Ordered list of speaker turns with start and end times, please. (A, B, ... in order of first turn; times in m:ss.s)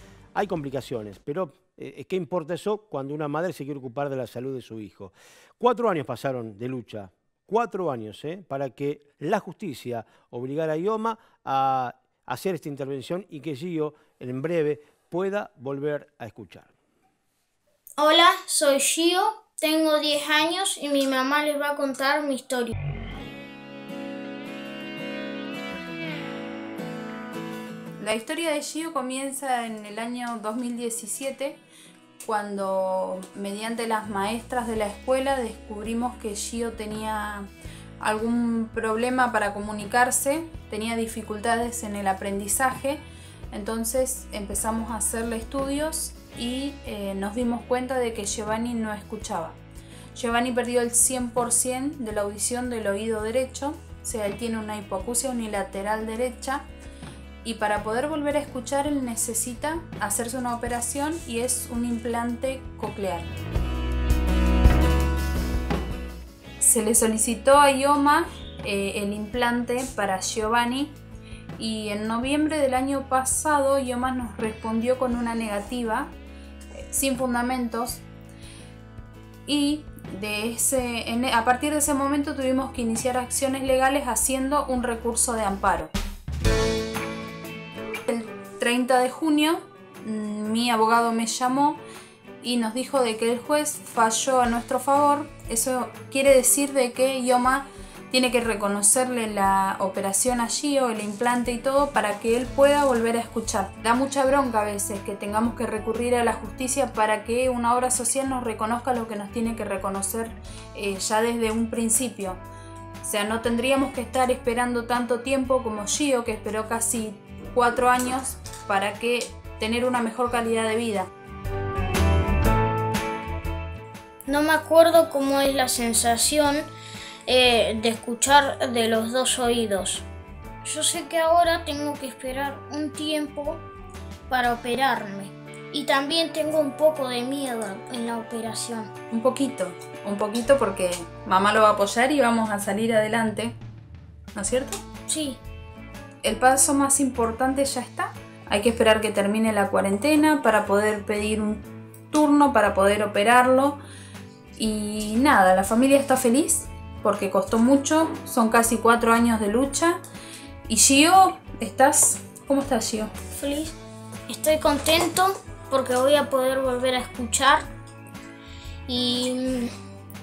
0:00.3-0:16.7 A
0:18.0-0:22.7 B
0:28.0-0:31.6 C
0:32.2-0:37.5 C
0:38.0-0:49.6 C
0:50.1-0:56.7 C
0:57.4-1:03.3 C
1:06.6-1:11.0 C
1:11.6-1:16.1 C
1:16.8-1:18.0 C
1:19.5-1:25.9 C
1:28.0-1:31.8 C
1:32.4-1:52.4 C
1:53.0-2:01.1 C
2:04.3-2:06.7 B
2:07.2-2:10.0 B
2:10.6-2:13.6 B
2:14.3-2:18.9 B
2:19.1-2:23.6 C
2:24.3-2:24.8 C
2:25.1-2:25.4 B
2:26.2-2:33.8 C
2:34.6-2:40.0 C
2:40.7-2:43.1 C
2:43.4-2:43.8 B
2:44.3-2:47.7 B
2:48.9-2:49.7 B